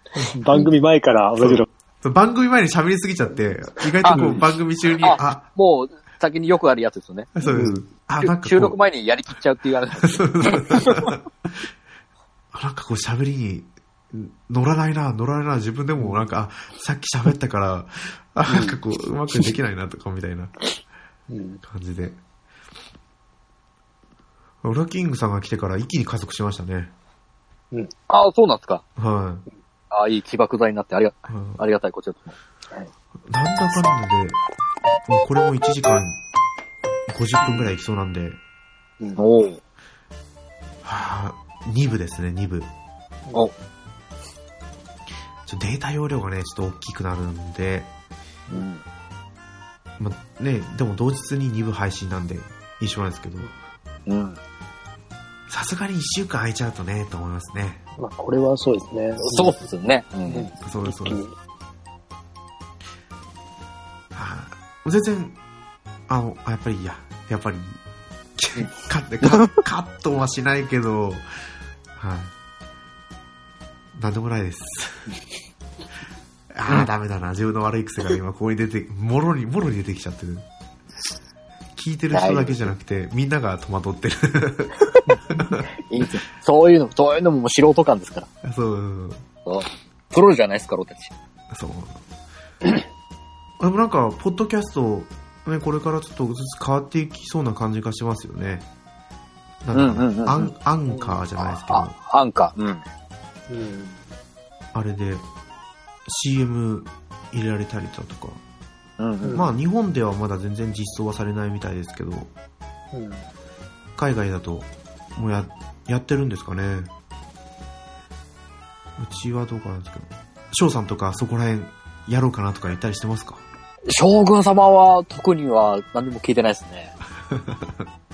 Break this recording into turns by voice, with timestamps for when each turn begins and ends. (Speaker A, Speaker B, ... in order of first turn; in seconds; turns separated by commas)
Speaker A: 0.3-1.7, Speaker B: 1.4-5.5, Speaker C: 4.0-4.4, Speaker A: 4.0-4.4, Speaker C: 5.0-7.3, Speaker B: 7.3-8.8, Speaker A: 7.4-7.8, Speaker C: 8.2-11.0, Speaker B: 10.2-11.2, Speaker B: 12.5-20.5, Speaker A: 16.0-16.2, Speaker A: 18.5-18.8, Speaker A: 21.3-21.6, Speaker B: 21.6-22.2, Speaker B: 24.6-26.9, Speaker C: 28.1-28.8, Speaker B: 29.0-29.5, Speaker C: 29.9-32.4, Speaker B: 31.3-31.6, Speaker B: 33.3-34.4, Speaker B: 35.1-36.2, Speaker B: 37.1-38.4, Speaker C: 39.2-39.6, Speaker B: 40.8-42.7, Speaker B: 45.5-47.9, Speaker C: 48.5-48.8, Speaker B: 50.0-53.5, Speaker C: 54.1-54.4, Speaker B: 55.5-57.8, Speaker A: 58.0-59.6, Speaker C: 59.2-60.5, Speaker A: 60.3-61.3, Speaker B: 60.6-61.2, Speaker B: 64.1-65.4, Speaker B: 66.1-67.8, Speaker B: 68.4-71.3, Speaker C: 69.2-69.5, Speaker B: 72.0-72.3, Speaker B: 74.0-75.1, Speaker B: 76.5-80.5, Speaker B: 81.8-85.7, Speaker C: 82.1-82.7, Speaker C: 85.8-88.3, Speaker B: 88.4-89.2, Speaker C: 89.5-91.1, Speaker B: 91.5-92.0, Speaker B: 93.6-98.7, Speaker B: 99.6-102.0, Speaker C: 99.7-100.5, Speaker A: 100.9-101.2, Speaker C: 101.4-102.8, Speaker A: 103.5-104.0, Speaker B: 104.7-105.3, Speaker B: 106.1-108.4, Speaker C: 109.0-109.4, Speaker B: 109.3-112.3, Speaker A: 112.9-113.3, Speaker B: 114.0-116.9, Speaker B: 119.0-123.4, Speaker C: 123.9-126.9, Speaker B: 127.3-127.8